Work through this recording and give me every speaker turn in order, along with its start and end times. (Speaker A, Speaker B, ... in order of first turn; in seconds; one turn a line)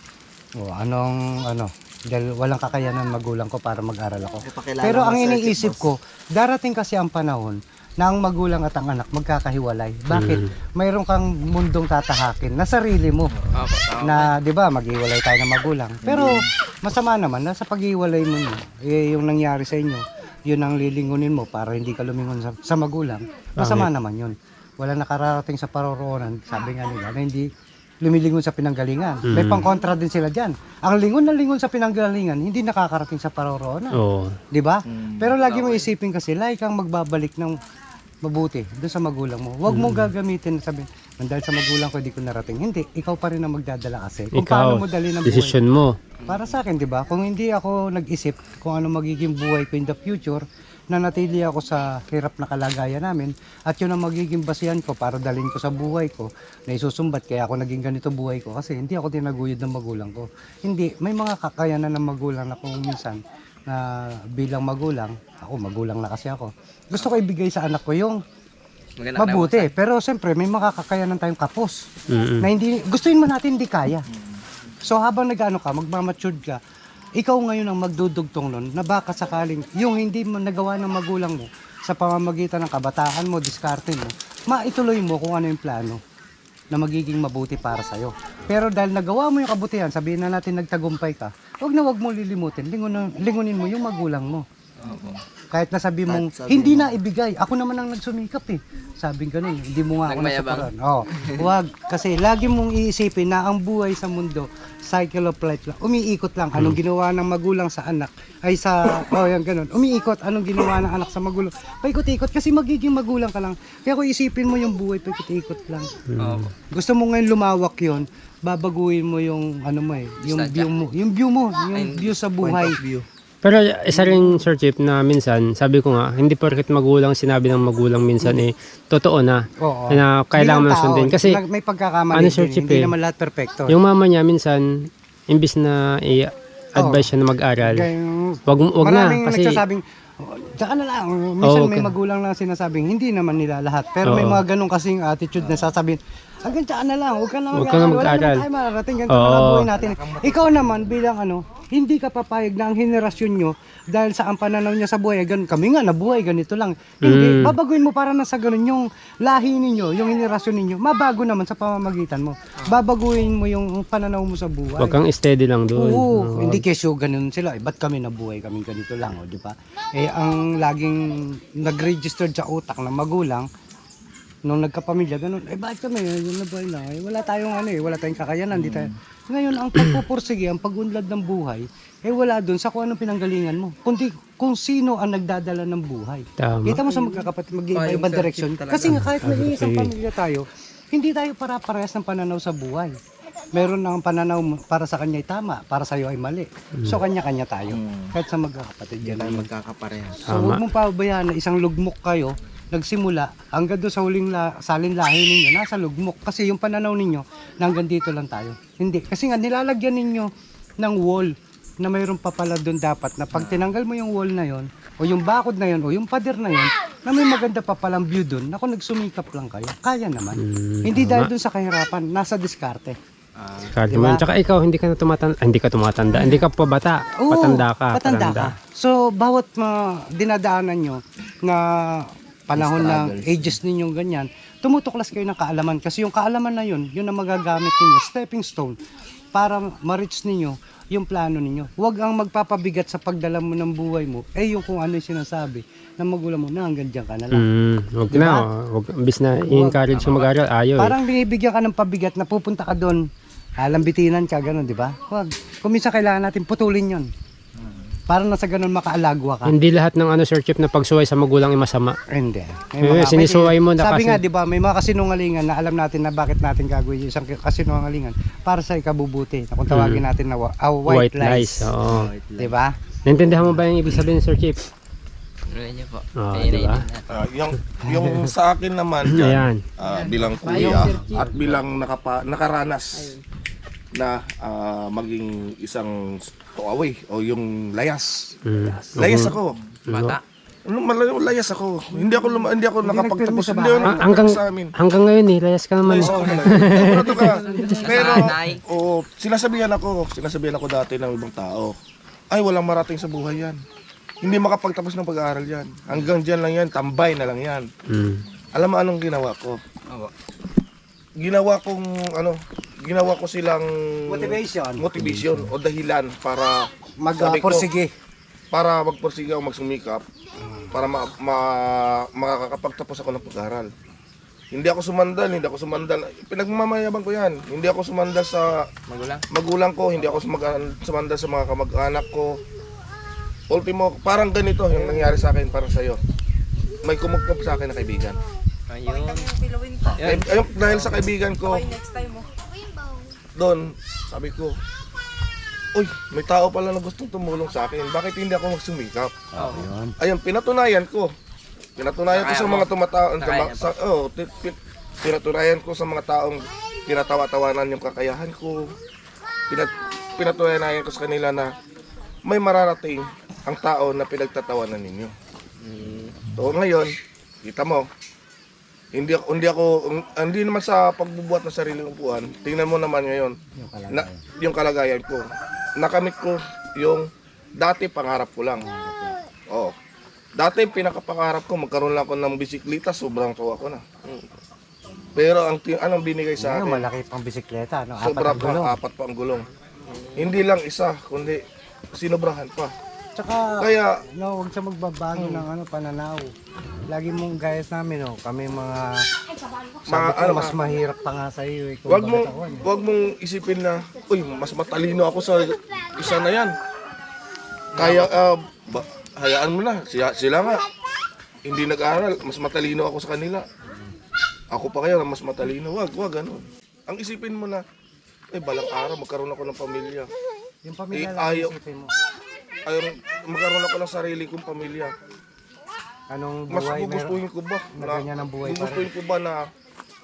Speaker A: 0.6-13.3
Speaker B: 4.4-5.8
Speaker C: 10.1-10.5
Speaker D: 13.5-14.3
Speaker A: 14.0-27.5
Speaker B: 16.0-16.5
Speaker C: 23.6-23.9
Speaker A: 28.0-34.0
Speaker C: 29.3-29.6
Speaker C: 33.9-34.4
Speaker A: 34.5-37.6
Speaker B: 34.9-35.3
Speaker D: 35.4-35.9
Speaker A: 38.2-45.6
Speaker C: 39.7-40.1
Speaker C: 44.3-45.9
Speaker A: 46.2-68.2
Speaker D: 69.0-69.7
Speaker A: 69.2-71.8
Speaker C: 72.1-72.5
Speaker A: 72.4-74.0
Speaker A: 74.8-76.6
Speaker A: 77.2-86.0
Speaker A: 86.7-94.5
Speaker D: 94.8-95.2
Speaker B: 94.9-95.2
Speaker A: 95.5-115.9
Speaker B: 96.1-96.9
Speaker D: 100.0-101.5
Speaker C: 116.1-116.5
Speaker D: 116.2-116.5
Speaker A: 116.7-122.8
Speaker D: 120.2-120.7
Speaker D: 121.7-122.1
Speaker B: 122.4-123.0
Speaker C: 123.4-131.4
Speaker A: 123.9-124.4
Speaker A: 129.6-133.8
Speaker C: 132.1-132.9
Speaker C: 133.7-137.9
Speaker A: 136.8-137.1
Speaker A: 137.6-165.0
Speaker C: 138.5-139.6
Speaker C: 141.4-141.9
Speaker C: 144.0-144.4
Speaker B: 145.3-145.7
Speaker C: 147.5-148.4
Speaker C: 149.1-149.7
Speaker B: 149.7-151.0
Speaker C: 157.0-157.5
Speaker C: 164.8-166.6
Speaker A: 165.7-173.5
Speaker A: 174.4-193.0
Speaker B: 178.6-178.9
Speaker C: 186.4-186.8
Speaker D: 186.9-189.1
Speaker C: 188.9-189.9
Speaker A: 193.5-199.5
Speaker B: 197.7-198.1
Speaker B: 199.0-200.2
Speaker A: 200.2-223.0
Speaker C: 200.3-200.6
Speaker B: 213.4-213.7
Speaker C: 220.3-221.3
Speaker B: 223.4-223.7
Speaker C: 223.6-228.5
Speaker A: 223.9-224.2
Speaker A: 227.2-238.8
Speaker B: 232.5-233.6
Speaker A: 239.3-247.5
Speaker C: 247.3-250.9
Speaker A: 248.1-248.4
Speaker A: 249.4-249.8
Speaker A: 250.8-253.1
Speaker A: 253.6-257.1
Speaker B: 257.6-257.9
Speaker A: 258.1-259.5
Speaker C: 259.4-261.9
Speaker A: 262.1-271.7
Speaker C: 262.8-264.2
Speaker C: 269.7-270.0
Speaker C: 270.9-272.1
Speaker B: 271.8-272.5
Speaker A: 272.4-272.8
Speaker C: 273.1-274.6
Speaker D: 275.5-277.2
Speaker C: 276.2-276.8
Speaker E: 277.1-283.2
Speaker C: 277.9-278.3
Speaker C: 279.1-279.6
Speaker D: 279.8-281.6
Speaker B: 280.6-280.8
Speaker E: 283.9-288.3
Speaker C: 288.4-289.4
Speaker E: 288.9-289.6
Speaker C: 289.9-290.2
Speaker D: 289.9-290.2
Speaker E: 290.7-294.7
Speaker A: 292.8-294.1
Speaker C: 293.8-297.3
Speaker E: 295.8-301.7
Speaker A: 296.0-298.3
Speaker D: 297.1-298.6
Speaker E: 302.3-303.6
Speaker E: 304.2-307.7
Speaker C: 307.9-308.2
Speaker E: 308.5-309.6
Speaker E: 311.2-317.7
Speaker A: 314.1-314.9
Speaker C: 314.9-315.5
Speaker A: 317.0-317.9
Speaker E: 318.5-320.0
Speaker A: 320.4-320.8
Speaker E: 320.7-323.7
Speaker E: 324.5-328.7
Speaker D: 328.9-329.2
Speaker E: 329.3-332.4
Speaker E: 333.5-336.0
Speaker E: 336.8-338.2
Speaker D: 338.7-342.2
Speaker E: 340.0-341.7
Speaker E: 343.4-344.6
Speaker E: 345.7-349.2
Speaker D: 349.4-349.7
Speaker A: 349.4-349.9
Speaker E: 350.0-351.1
Speaker E: 351.8-358.7
Speaker D: 352.1-353.7
Speaker E: 359.5-361.5
Speaker E: 362.2-365.1
Speaker D: 365.6-366.2
Speaker E: 366.3-367.9
Speaker E: 368.9-373.4
Speaker A: 373.6-374.2
Speaker E: 373.9-375.3
Speaker E: 375.8-378.6
Speaker A: 378.6-379.1
Speaker E: 379.5-379.7
Speaker E: 380.4-384.3
Speaker E: 385.1-386.9
Speaker A: 386.4-388.7
Speaker E: 388.0-389.4
Speaker D: 389.9-390.3
Speaker E: 390.1-391.4
Speaker E: 391.9-392.7
Speaker A: 393.1-396.3
Speaker E: 393.6-394.0
Speaker D: 395.1-395.4
Speaker A: 396.9-399.0
Speaker A: 399.9-402.6
Speaker E: 399.9-400.5
Speaker E: 401.9-406.5
Speaker D: 407.7-408.1
Speaker E: 407.7-410.6
Speaker E: 411.4-413.4
Speaker E: 414.5-417.6
Speaker E: 418.3-420.1
Speaker A: 420.6-421.9
Speaker E: 420.9-421.5
Speaker E: 422.6-424.9
Speaker A: 426.1-427.2
Speaker E: 426.5-429.4
Speaker A: 427.7-428.9